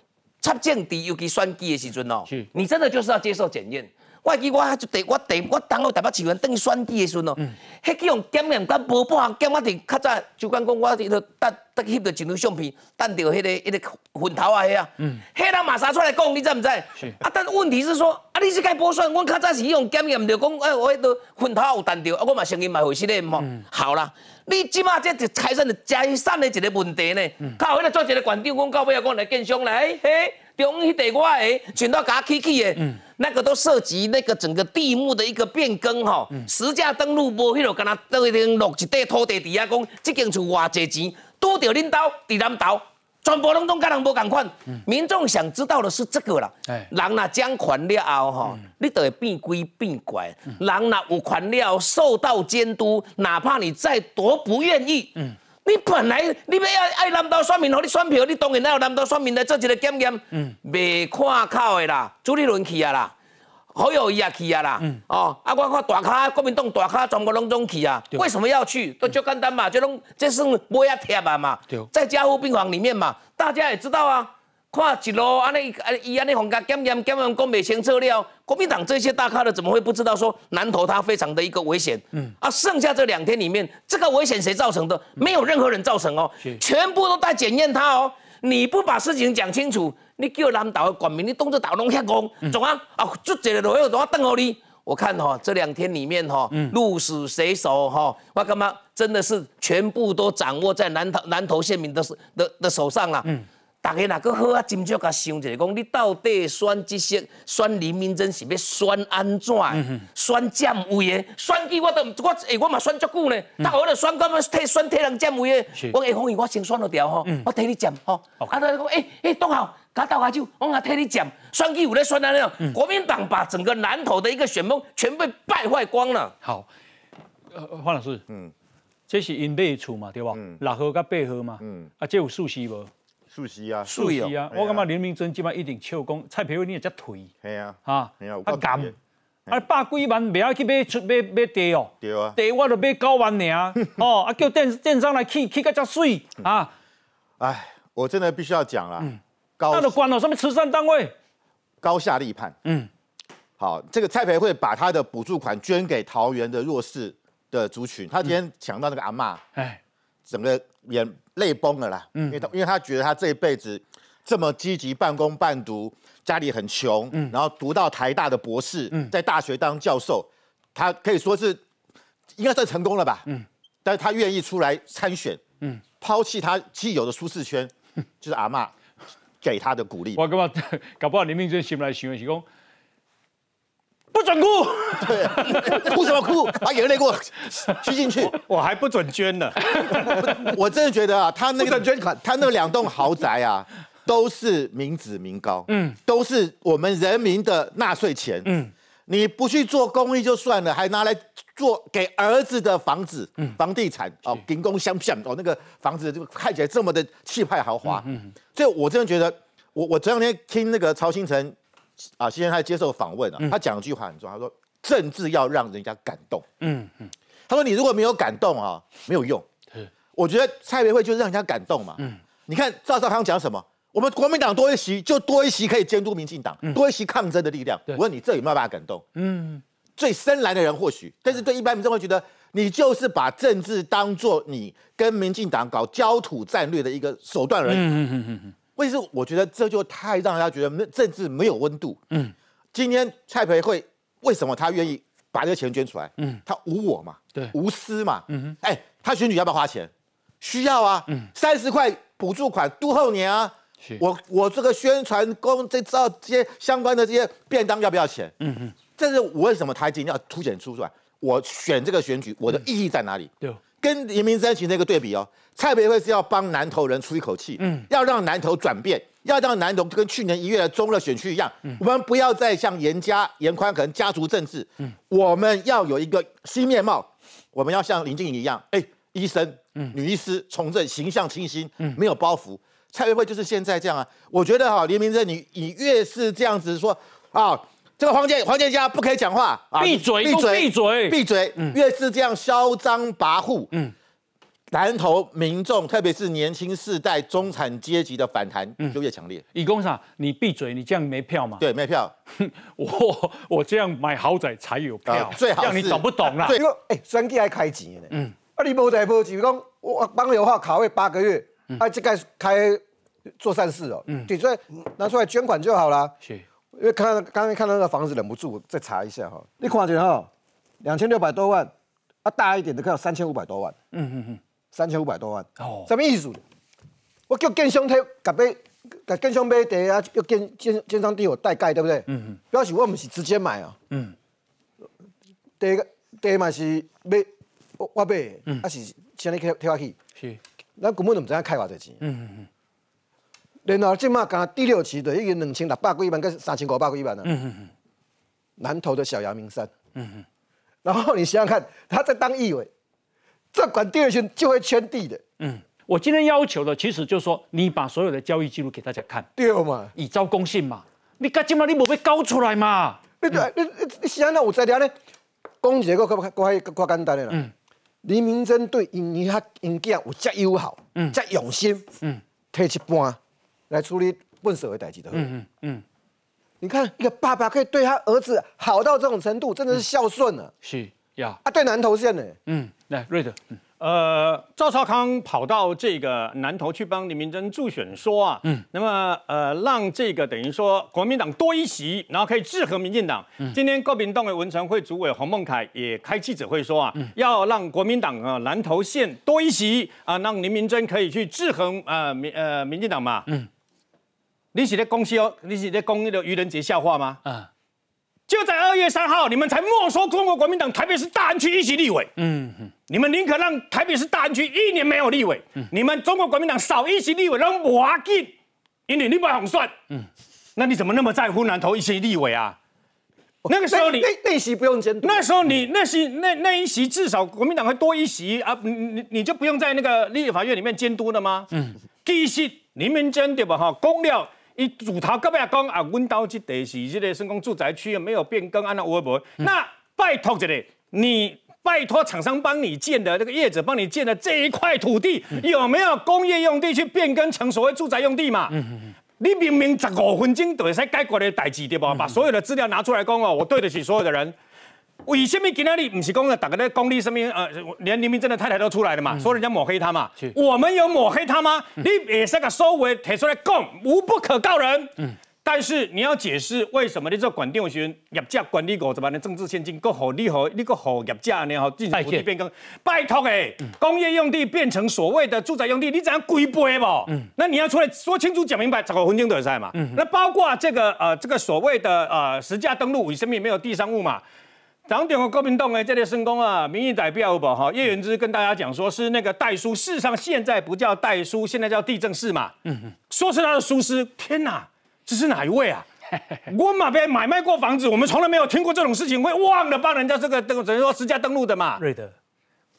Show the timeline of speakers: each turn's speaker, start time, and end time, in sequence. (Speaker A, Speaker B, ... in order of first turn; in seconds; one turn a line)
Speaker A: 0.4-63.1
Speaker A: 63.7-103.3
Speaker A: 103.8-126.3
Speaker B: 109.7-110.0
Speaker B: 126.4-126.7
Speaker B: 127.5-128.2
Speaker B: 129.1-132.9
Speaker C: 130.3-130.6
Speaker C: 131.6-131.9
Speaker C: 133.3-134.8
Speaker B: 133.8-137.3
Speaker C: 137.4-138.9
Speaker B: 137.8-138.9
Speaker B: 139.5-146.7
Speaker C: 142.0-142.4
Speaker C: 147.4-149.9
Speaker B: 149.7-151.1
Speaker C: 151.8-152.5
Speaker B: 152.6-152.9
Speaker C: 153.6-159.4
Speaker C: 160.3-171.6
Speaker B: 162.1-162.4
Speaker C: 172.3-173.2
Speaker C: 173.8-175.4
Speaker C: 176.0-178.7
Speaker C: 179.4-180.2
Speaker B: 180.2-182.4
Speaker B: 184.1-185.9
Speaker C: 185.0-188.3
Speaker D: 188.3-189.6
Speaker B: 189.7-190.1
Speaker C: 189.9-198.5
Speaker E: 191.6-192.1
Speaker B: 195.7-195.9
Speaker C: 199.1-211.6
Speaker B: 207.9-208.3
Speaker C: 212.2-216.4
Speaker B: 216.6-217.1
Speaker C: 217.5-219.4
Speaker C: 220.1-229.0
Speaker B: 229.2-229.6
Speaker C: 230.0-237.9
Speaker B: 237.7-238.5
Speaker C: 238.8-242.0
Speaker C: 242.7-258.3
Speaker B: 258.4-258.7
Speaker C: 259.0-293.7
Speaker B: 267.6-267.9
Speaker B: 289.8-291.8
Speaker C: 294.7-299.4
Speaker B: 299.5-301.6
Speaker C: 301.6-302.1
Speaker B: 302.4-306.6
Speaker C: 305.1-306.6
Speaker E: 306.5-312.8
Speaker E: 313.4-316.1
Speaker E: 316.7-320.3
Speaker E: 320.8-321.7
Speaker E: 322.2-323.7
Speaker B: 323.9-324.4
Speaker E: 324.7-326.4
Speaker B: 325.6-325.9
Speaker E: 327.3-333.8
Speaker B: 332.1-332.4
Speaker E: 335.6-339.9
Speaker E: 340.8-342.0
Speaker B: 342.0-342.5
Speaker E: 343.6-347.3
Speaker B: 347.2-347.7
Speaker E: 348.6-349.7
Speaker B: 350.0-350.2
Speaker E: 350.8-352.7
Speaker E: 353.5-355.2
Speaker B: 355.4-359.3
Speaker E: 359.4-359.9
Speaker B: 359.9-363.4
Speaker E: 363.2-364.9
Speaker E: 365.6-367.4
Speaker E: 368.0-371.9
Speaker E: 372.5-373.2
Speaker E: 373.7-375.3
Speaker B: 375.1-375.8
Speaker E: 376.6-380.5
Speaker B: 380.6-381.4
Speaker E: 381.4-382.4
Speaker B: 382.5-383.6
Speaker D: 383.8-403.3
Speaker D: 404.5-407.2
Speaker D: 408.3-412.1
Speaker B: 412.2-412.7
Speaker D: 412.9-418.3
Speaker D: 418.9-419.7
Speaker D: 420.6-422.6
Speaker E: 423.4-425.3
Speaker D: 423.5-424.1
Speaker D: 425.0-431.5
Speaker D: 432.0-448.6
Speaker D: 449.2-454.3
Speaker D: 455.1-464.9
Speaker D: 465.4-484.2
Speaker B: 471.9-472.2
Speaker D: 484.9-492.5
Speaker D: 493.1-495.9
Speaker D: 496.5-501.8
Speaker B: 501.8-502.1